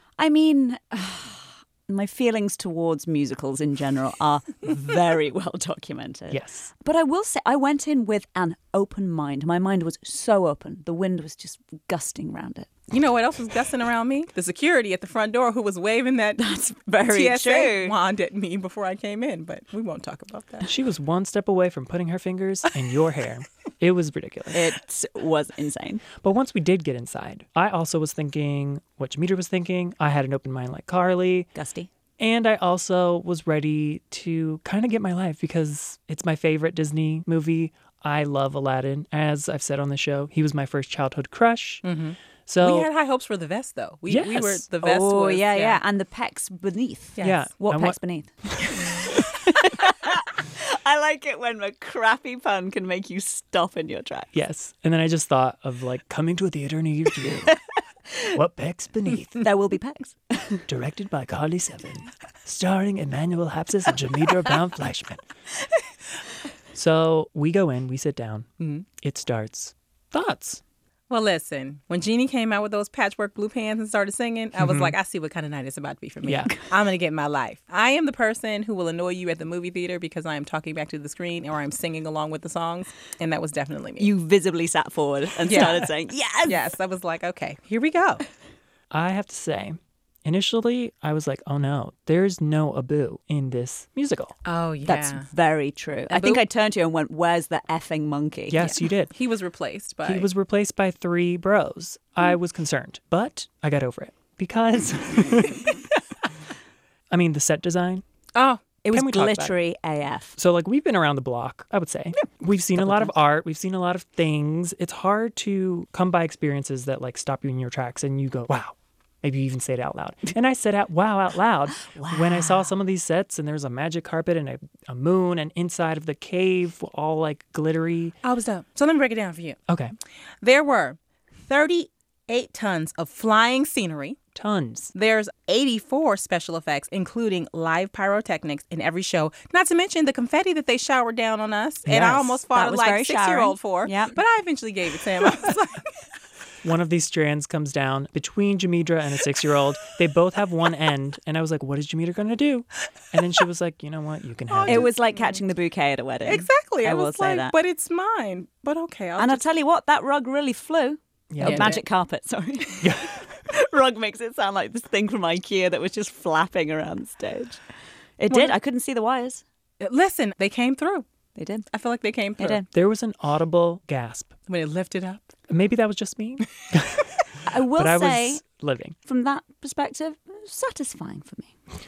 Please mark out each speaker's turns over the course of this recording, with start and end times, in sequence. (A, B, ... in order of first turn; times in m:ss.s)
0:00.2-0:12.7 A
0:06.3-0:06.7 B
0:12.9-0:16.4 C
0:16.4-0:18.0 A
0:17.0-0:20.7 C
0:20.6-0:24.7 B
0:24.5-0:26.0 A
0:26.2-0:31.5 B
0:31.6-0:31.9 A
0:32.2-0:41.8 B
0:41.8-0:45.8 C
0:42.5-0:42.9 B
0:44.1-0:44.7 B
0:44.8-0:54.3 A
0:47.2-0:47.5 C
0:47.2-0:48.0 B
0:54.3-0:57.6 B
0:58.3-0:59.4 B
0:59.4-1:00.6 A
1:00.7-1:05.2 B
1:06.7-1:08.5 B
1:08.6-1:08.8 C
1:09.0-1:10.6 B
1:11.1-1:24.1 C
1:14.6-1:15.0 B
1:16.2-1:16.5 B
1:24.0-1:26.7 A
1:25.5-1:25.9 C
1:26.5-1:28.2 C
1:28.9-1:34.4 B
1:34.4-1:35.3 C
1:34.9-1:38.7 A
1:36.1-1:36.4 C
1:38.5-1:39.1 B
1:38.6-1:40.3 C
1:40.0-1:45.8 B
1:47.1-1:48.0 B
1:48.4-1:48.6 C
1:48.8-1:50.4 A
1:48.9-1:49.6 B
1:50.4-2:08.2 B
1:52.8-1:53.1 A
2:01.9-2:02.6 A
2:08.2-2:09.6 C
2:09.7-2:09.9 B
2:10.4-2:14.2 C
2:14.4-2:14.9 B
2:15.0-2:25.9 C
2:21.9-2:22.4 B
2:22.5-2:24.2 A
2:26.6-2:34.9 B
2:34.5-2:35.4 C
2:34.7-2:37.6 A
2:36.2-2:39.4 C
2:39.2-2:47.6 A
2:41.3-2:41.8 B
2:41.4-2:41.8 C
2:42.8-2:43.1 B
2:48.2-2:49.4 A
2:48.3-2:48.6 C
2:49.8-2:51.0 C
2:51.4-2:51.7 A
2:51.7-2:52.6 C
2:52.4-2:52.7 A
2:52.7-2:54.3 B
2:54.5-2:55.3 C
2:55.5-2:57.1 B
2:57.4-2:58.4 A
2:57.8-2:59.0 B
2:59.0-3:01.5 A